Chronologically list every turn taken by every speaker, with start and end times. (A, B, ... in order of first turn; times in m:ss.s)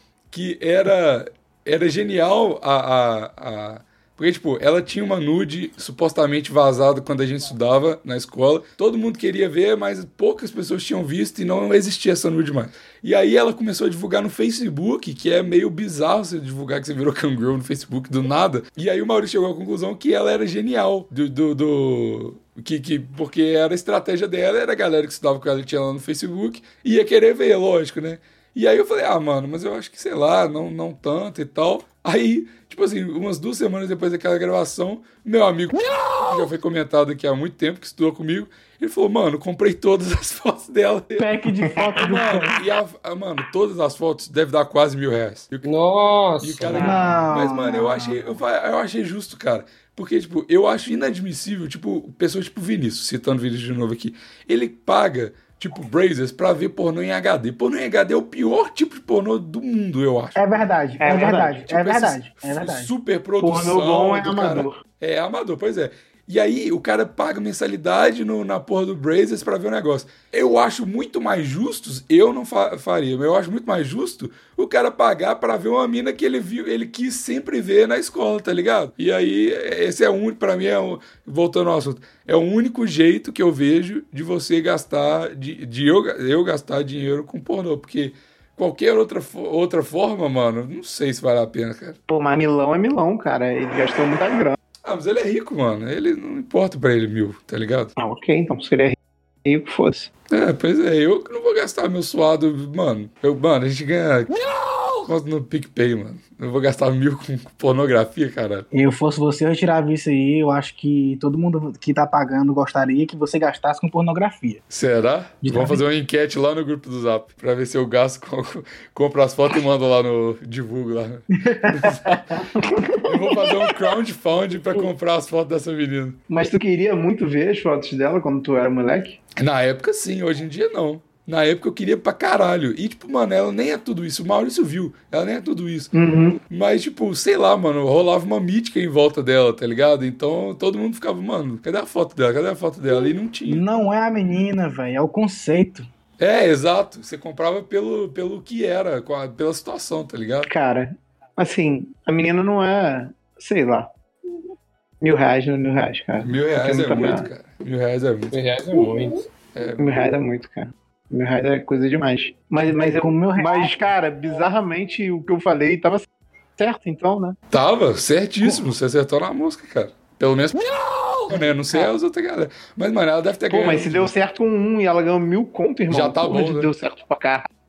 0:00.3-0:41.3 A
0:41.2-0:42.6 B
0:41.9-0:45.7 A
0:45.6-0:47.0 C
0:46.4-1:00.4 A
0:46.7-0:48.3 B
1:00.4-1:02.9 B
1:01.0-1:01.6 D
1:01.5-1:32.0 A
1:03.4-1:04.8 D
1:32.1-1:34.6 D
1:34.8-1:37.9 A
1:38.0-1:40.1 D
1:40.3-1:44.4 A
1:44.4-1:45.0 C
1:45.0-1:48.7 A
1:48.7-1:54.6 B
1:54.7-2:02.4 A
1:55.4-1:55.8 D
2:01.4-2:02.4 B
2:02.5-2:03.0 D
2:03.0-2:06.2 A
2:06.3-2:09.2 D
2:09.4-2:15.9 A
2:15.9-2:16.4 D
2:16.5-2:23.6 A
2:23.5-2:25.8 B
2:26.2-2:30.5 A
2:30.5-2:33.9 D
2:35.0-2:37.3 D
2:36.2-2:38.4 A
2:38.3-2:39.3 C
2:39.5-2:39.9 A
2:39.8-2:47.4 D
2:42.7-2:43.7 B
2:47.5-2:54.1 A
2:53.5-2:57.5 D
2:55.9-2:56.7 A